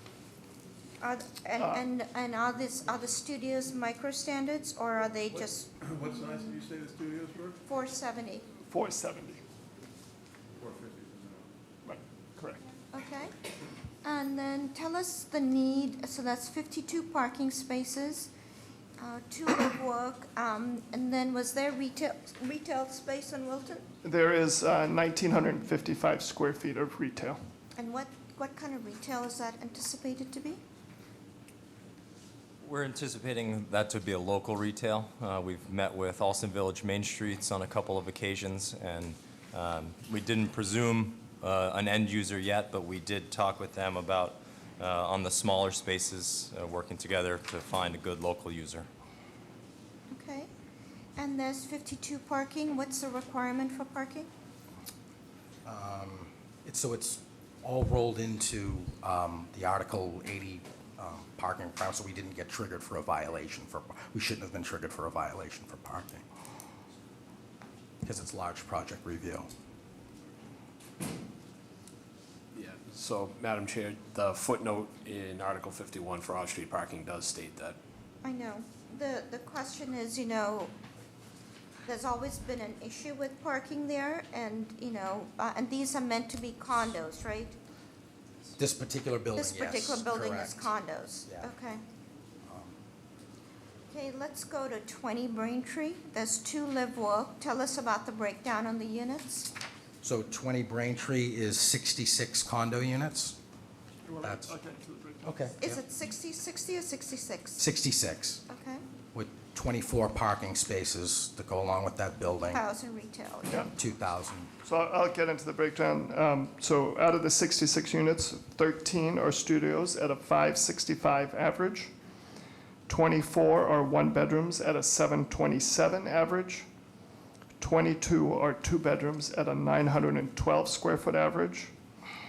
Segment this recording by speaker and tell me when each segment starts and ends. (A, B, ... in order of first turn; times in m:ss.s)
0:01.0-0:06.5 A
0:06.0-0:07.5 B
0:07.7-0:08.5 A
0:08.7-0:09.4 C
0:10.6-0:11.3 B
0:11.8-0:12.6 C
0:12.9-0:13.3 A
0:14.0-0:18.3 A
0:19.0-0:23.9 A
0:24.0-0:27.4 C
0:27.8-0:30.6 A
0:32.6-0:48.9 D
0:50.1-0:50.5 A
0:51.2-0:54.3 A
0:55.7-1:06.2 E
1:08.0-1:09.5 E
1:12.6-1:13.1 B
1:12.6-1:17.8 F
1:14.8-1:17.4 B
1:18.2-1:20.7 A
1:21.8-1:27.6 A
1:28.6-1:30.7 E
1:29.4-1:31.8 A
1:32.5-1:32.7 E
1:33.9-1:39.5 A
1:40.0-1:43.4 E
1:44.1-1:45.4 C
1:44.2-1:44.5 E
1:45.2-1:45.8 E
1:45.6-1:47.6 A
1:47.6-1:48.4 E
1:48.5-1:48.8 A
1:49.1-1:52.6 E
1:52.5-1:53.6 A
1:53.8-1:54.5 E
1:54.6-2:01.9 C
2:02.9-2:06.7 C
2:07.6-2:11.7 C